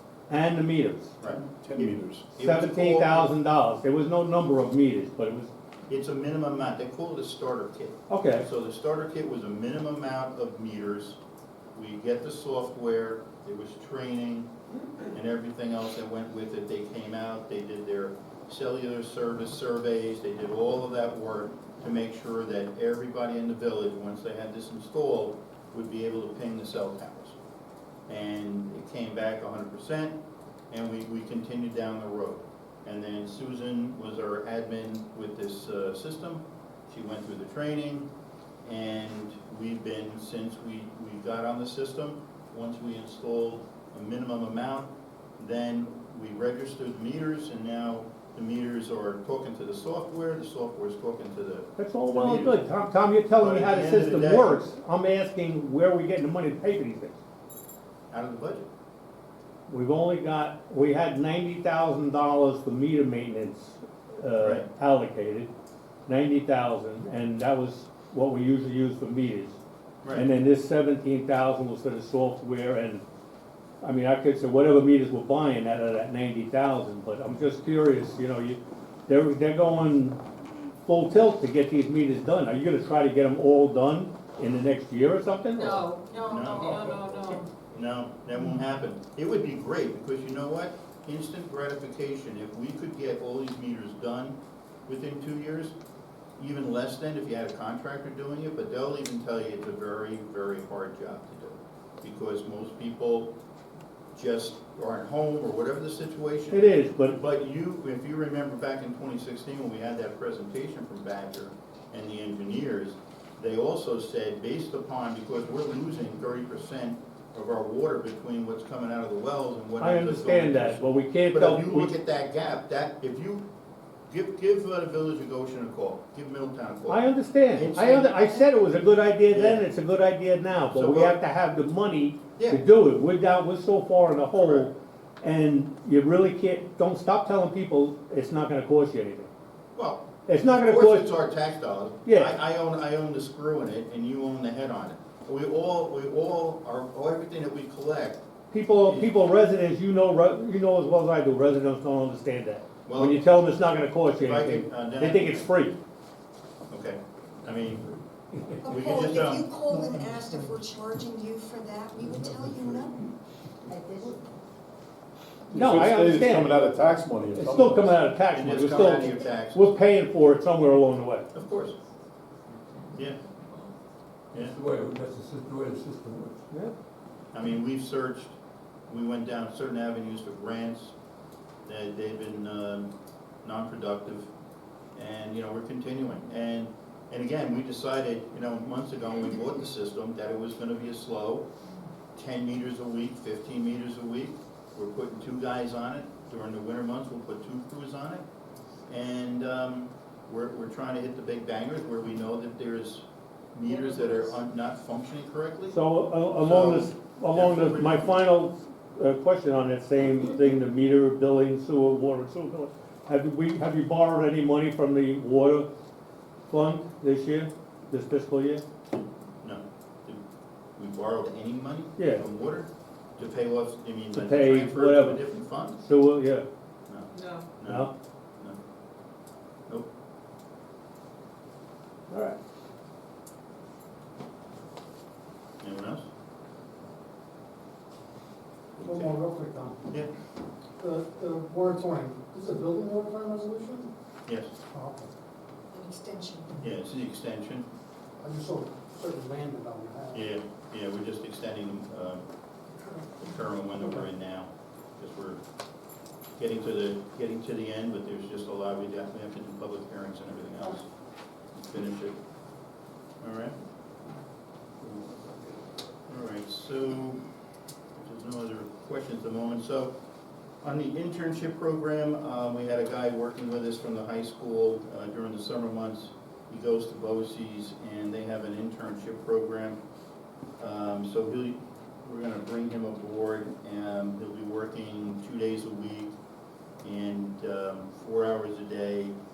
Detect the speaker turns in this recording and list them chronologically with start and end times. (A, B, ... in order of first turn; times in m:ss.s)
0:00.3-0:01.2 A
0:01.2-0:03.3 B
0:01.6-0:02.2 C
0:01.8-0:05.5 A
0:05.9-0:11.2 B
0:08.1-0:08.4 A
0:11.7-0:27.4 B
0:28.1-0:30.2 B
0:30.7-0:38.1 B
0:38.6-0:52.6 B
0:51.8-0:57.2 A
0:53.4-0:54.6 B
0:58.1-0:58.7 B
0:59.7-1:05.5 A
1:04.4-1:04.7 B
1:06.1-1:09.6 A
1:10.0-1:10.3 B
1:10.1-1:13.0 A
1:13.8-1:20.2 A
1:20.8-1:25.8 A
1:25.6-1:27.5 D
1:26.0-1:35.8 B
1:36.4-1:43.3 B
1:44.1-2:03.4 B
1:46.5-1:47.2 A
1:59.8-2:01.9 A
2:04.1-2:08.7 B
2:06.9-2:19.3 A
2:09.3-2:09.6 B
2:10.7-2:11.2 B
2:12.4-2:12.6 B
2:14.3-2:14.7 B
2:19.7-2:28.2 B
2:20.2-2:21.1 A
2:22.0-2:22.3 A
2:28.5-2:35.8 A
2:28.8-2:29.2 B
2:32.9-2:33.3 B
2:34.1-2:35.5 B
2:36.7-2:37.9 B
2:38.6-2:43.0 E
2:38.6-2:39.4 B
2:45.5-2:48.0 C
2:45.5-2:46.6 A
2:47.3-2:51.3 A
2:48.3-2:49.7 B
2:48.7-2:49.1 E
2:51.3-2:51.8 B
2:54.3-2:56.4 F
2:57.3-2:58.3 B
2:58.9-3:00.9 B
3:01.6-3:02.9 B
3:03.4-3:04.3 B
3:04.9-3:11.4 B
3:12.1-3:18.2 B
3:18.9-3:25.8 B
3:25.7-3:35.7 A
3:26.4-3:28.2 B
3:36.5-3:38.6 A
3:39.4-3:40.2 B
3:40.8-3:45.8 B
3:42.0-3:42.2 A
3:44.1-3:46.4 A
3:46.9-3:48.6 B
3:47.1-3:47.5 D
3:47.6-3:47.9 A
3:52.1-3:52.4 A
3:55.6-3:56.1 B
3:58.8-3:59.1 B
3:58.8-3:59.8 G
4:00.8-4:03.9 G
4:04.3-4:04.5 B
4:04.7-4:05.1 G
4:05.7-4:06.5 E
4:06.6-4:07.7 B
4:08.2-4:10.2 G
4:10.1-4:12.2 B
4:12.8-4:13.2 G
4:13.2-4:15.4 B
4:13.8-4:14.0 G
4:16.4-4:20.9 B
4:21.5-4:22.2 B
4:23.2-4:23.6 B
4:26.1-4:27.2 B
4:28.0-4:29.9 B
4:30.6-4:39.8 B
4:40.6-4:46.1 B
4:46.8-4:49.1 B